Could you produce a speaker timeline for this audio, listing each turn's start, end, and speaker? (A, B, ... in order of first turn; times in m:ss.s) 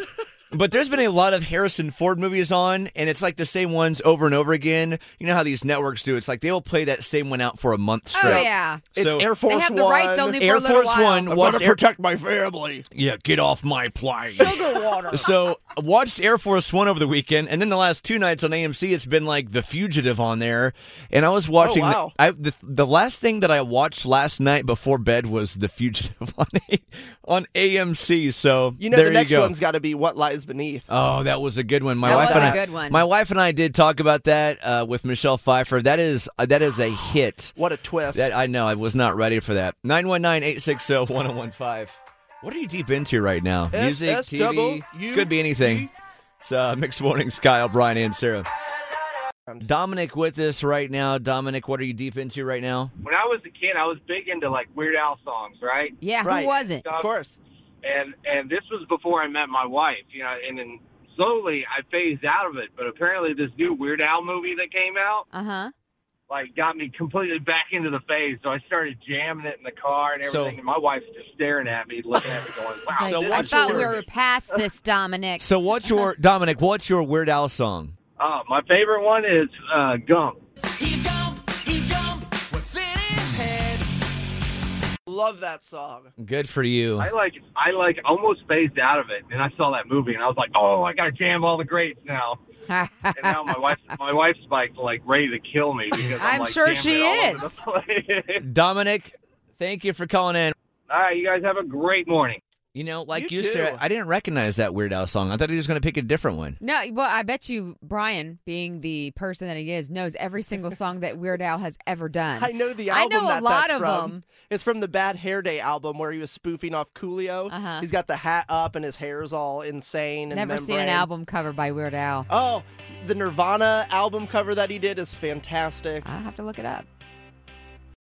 0:00.5-0:09.3 A
0:08.1-0:10.5 B
0:08.2-0:08.8 C
0:09.5-0:11.3 C
0:10.4-0:11.8 A
0:11.3-0:12.9 B
0:12.9-0:29.5 A
0:14.3-0:15.2 B
0:14.4-0:15.0 C
0:21.6-0:22.2 B
0:28.8-0:30.9 B
0:30.9-0:37.6 A
0:32.0-0:32.7 B
0:32.0-0:33.0 C
0:37.6-0:38.2 B
0:38.1-0:48.5 A
0:43.7-0:45.9 B
0:49.6-0:52.9 A
0:53.0-0:56.0 D
0:56.0-0:56.8 C
0:56.2-0:57.4 B
0:56.8-0:57.1 D
0:57.8-1:05.3 D
1:05.3-1:05.7 C
1:06.3-1:14.0 D
1:10.2-1:10.6 A
1:13.0-1:15.4 C
1:13.0-1:14.0 A
1:15.4-1:18.0 A
1:18.2-1:20.4 D
1:20.8-1:23.8 A
1:25.1-1:26.1 B
1:26.2-1:27.1 A
1:27.0-1:32.4 D
1:32.7-1:33.2 C
1:33.2-1:38.4 D
1:36.2-1:37.5 C
1:38.4-1:40.6 A
1:40.9-1:42.4 D
1:42.7-1:46.6 A
1:43.1-1:43.8 B
1:46.6-1:54.2 C
1:52.4-2:01.1 B
1:57.5-1:57.8 C
2:00.3-2:02.2 C
2:02.3-2:06.1 B
2:06.2-2:06.8 C